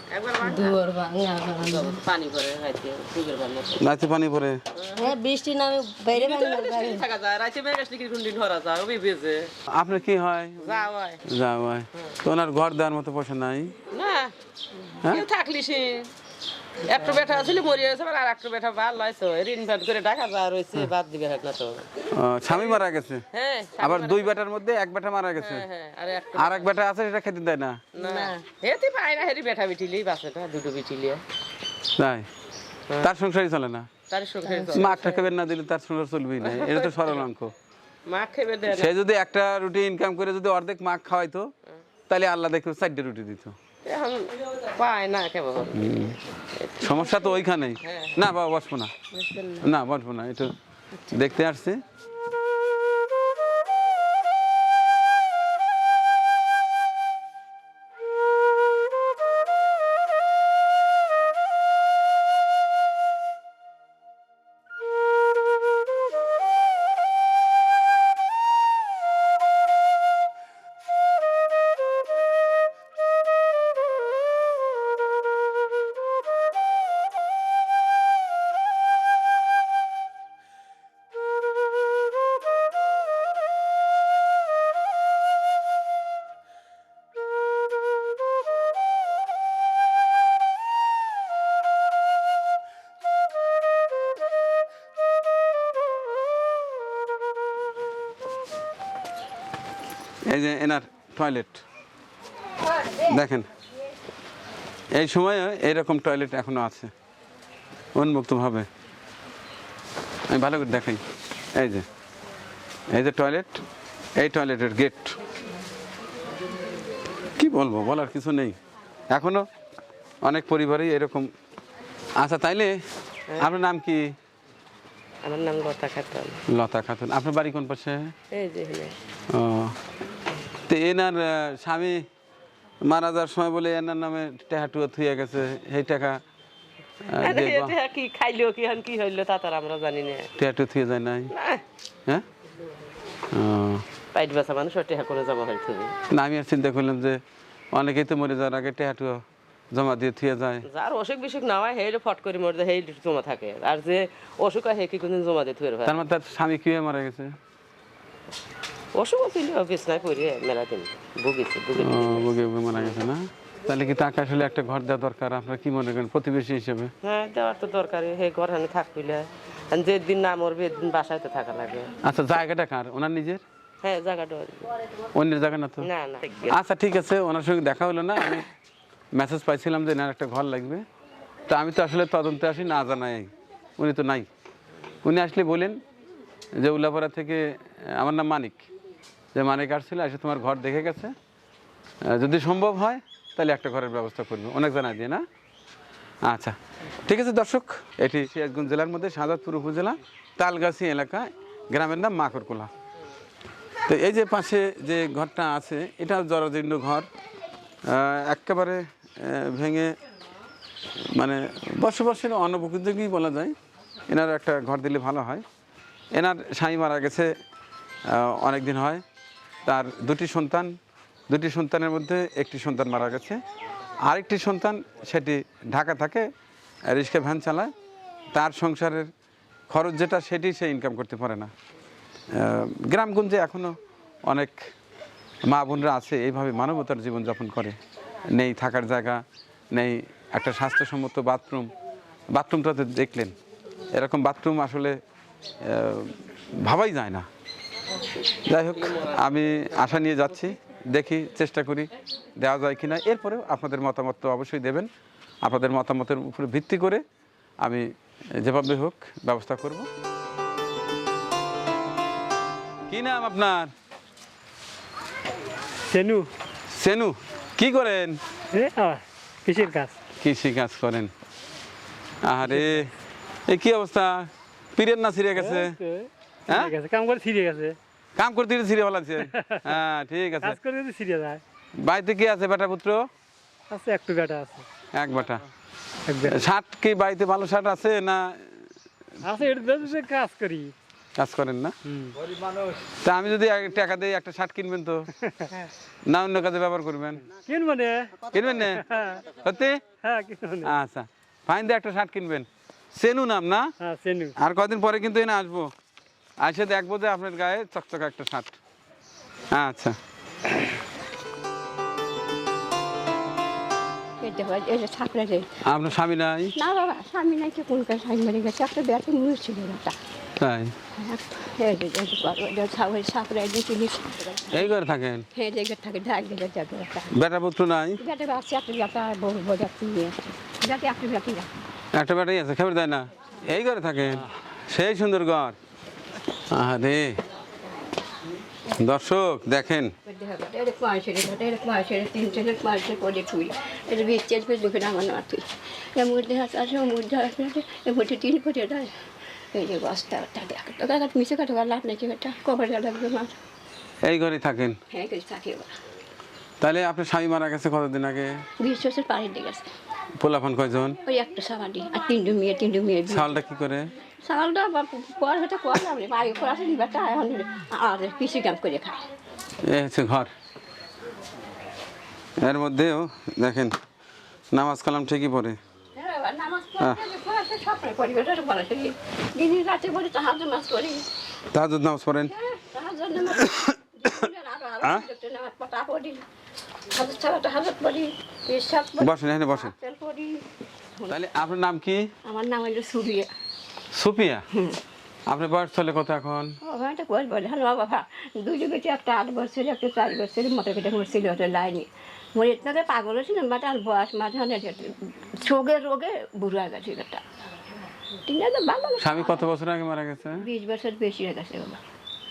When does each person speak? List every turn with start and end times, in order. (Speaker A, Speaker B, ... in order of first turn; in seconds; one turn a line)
Speaker A: 0.1-0.8
Speaker B: 0.4-2.0
Speaker A: 1.6-3.9
Speaker C: 3.8-4.6
Speaker A: 4.8-5.1
Speaker B: 5.0-7.1
Speaker A: 6.1-9.5
Speaker C: 9.7-10.7
Speaker A: 10.6-11.2
Speaker C: 11.2-13.7
Speaker A: 13.9-14.3
Speaker A: 15.1-16.1
Speaker A: 16.8-21.8
Speaker C: 22.1-23.2
Speaker A: 22.5-22.8
Speaker A: 23.3-24.4
Speaker C: 23.8-25.6
Speaker A: 25.4-26.7
Speaker C: 26.4-27.8
Speaker A: 27.9-31.2
Speaker B: 28.0-28.4
Speaker C: 32.0-32.3
Speaker C: 33.0-33.9
Speaker A: 34.1-35.3
Speaker B: 34.4-34.7
Speaker C: 34.8-37.5
Speaker A: 36.4-37.3
Speaker A: 38.1-38.9
Speaker C: 38.7-41.5
Speaker C: 42.1-43.6
Speaker A: 43.8-46.0
Speaker C: 45.7-46.2
Speaker A: 46.6-48.2
Speaker C: 46.8-48.9
Speaker B: 49.1-49.7
Speaker C: 49.6-50.5
Speaker C: 51.1-51.8
Speaker C: 100.3-101.6
Speaker C: 103.0-103.5
Speaker C: 104.9-106.9
Speaker C: 108.0-108.7
Speaker C: 110.3-111.0
Speaker C: 111.5-111.8
Speaker C: 112.9-113.6
Speaker C: 114.2-115.2
Speaker C: 117.4-118.6
Speaker C: 119.1-119.5
Speaker C: 120.2-121.3
Speaker C: 122.2-122.8
Speaker C: 123.4-124.1
Speaker A: 125.2-126.4
Speaker C: 126.5-128.1
Speaker A: 128.3-128.9
Speaker C: 129.3-129.8
Speaker C: 130.7-132.1
Speaker C: 132.8-136.2
Speaker C: 137.1-137.8
Speaker A: 137.2-140.3
Speaker C: 140.4-141.3
Speaker A: 141.3-141.6
Speaker C: 143.3-143.8
Speaker A: 144.1-145.9
Speaker C: 146.1-147.2
Speaker C: 147.7-150.7
Speaker A: 150.7-156.0
Speaker C: 155.8-157.4
Speaker A: 158.9-162.3
Speaker C: 161.8-166.9
Speaker A: 167.0-171.9
Speaker C: 172.0-173.4
Speaker A: 173.8-174.7
Speaker C: 175.1-175.9
Speaker A: 175.8-176.6
Speaker C: 176.5-178.5
Speaker C: 179.2-180.8
Speaker C: 181.5-184.3
Speaker C: 185.0-185.8
Speaker C: 186.6-188.7
Speaker C: 189.3-191.2
Speaker C: 192.1-195.2
Speaker C: 196.3-202.7
Speaker C: 203.9-207.1
Speaker C: 207.9-209.9
Speaker C: 211.2-213.6
Speaker C: 214.1-215.4
Speaker C: 216.2-217.3
Speaker C: 218.1-219.0
Speaker C: 219.7-220.8
Speaker C: 221.3-223.4
Speaker C: 224.1-226.3
Speaker C: 226.9-227.7
Speaker C: 228.3-229.1
Speaker C: 229.7-231.5
Speaker C: 232.3-234.7
Speaker C: 235.5-237.8
Speaker C: 238.3-239.2
Speaker C: 239.7-241.7
Speaker C: 242.3-243.4
Speaker C: 243.9-245.0
Speaker C: 245.6-247.3
Speaker C: 248.5-254.9
Speaker C: 255.4-257.0
Speaker C: 257.6-259.9
Speaker C: 262.9-263.7
Speaker D: 265.9-266.3
Speaker C: 266.8-268.2
Speaker D: 268.5-270.0
Speaker C: 270.2-271.1
Speaker C: 272.2-272.9
Speaker D: 272.4-272.9
Speaker C: 273.5-275.8
Speaker D: 275.4-277.8
Speaker C: 278.2-280.6
Speaker D: 279.3-279.8
Speaker D: 280.4-281.4
Speaker C: 281.8-283.1
Speaker D: 283.7-284.6
Speaker C: 284.9-285.4
Speaker D: 286.1-286.4
Speaker C: 286.3-288.5
Speaker D: 289.2-290.7
Speaker C: 291.2-291.8
Speaker D: 291.9-292.1
Speaker C: 293.0-295.1
Speaker C: 296.1-297.2
Speaker D: 297.3-299.3
Speaker C: 298.3-298.8
Speaker C: 299.4-299.8
Speaker D: 300.0-300.7
Speaker C: 300.6-303.7
Speaker D: 303.8-304.4
Speaker C: 304.4-305.7
Speaker C: 306.4-308.6
Speaker C: 309.5-310.0
Speaker E: 314.2-315.5
Speaker C: 315.6-316.5
Speaker E: 316.6-320.0
Speaker C: 320.4-320.7
Speaker E: 321.0-324.7
Speaker C: 324.5-325.3
Speaker E: 325.4-327.1
Speaker C: 327.1-328.0
Speaker E: 328.0-331.5
Speaker C: 331.9-335.6
Speaker C: 336.5-337.2
Speaker C: 338.8-339.9
Speaker E: 340.1-348.9
Speaker E: 349.5-353.4
Speaker C: 354.1-354.8
Speaker E: 354.9-355.7
Speaker C: 356.6-358.4
Speaker E: 358.6-359.7
Speaker C: 360.2-361.0
Speaker E: 361.1-363.4
Speaker C: 363.1-363.9
Speaker E: 364.2-369.1
Speaker C: 369.7-370.3
Speaker C: 372.4-373.8
Speaker C: 374.5-375.6
Speaker E: 376.0-381.1
Speaker C: 381.5-382.3
Speaker E: 382.3-386.2
Speaker C: 383.4-383.7
Speaker E: 386.9-390.4
Speaker C: 389.0-389.7
Speaker C: 391.1-392.1
Speaker E: 392.2-393.3
Speaker C: 393.9-394.5
Speaker E: 394.5-394.8
Speaker C: 395.3-396.5
Speaker E: 396.6-407.2
Speaker E: 408.2-409.4
Speaker C: 409.0-410.4
Speaker E: 410.4-411.8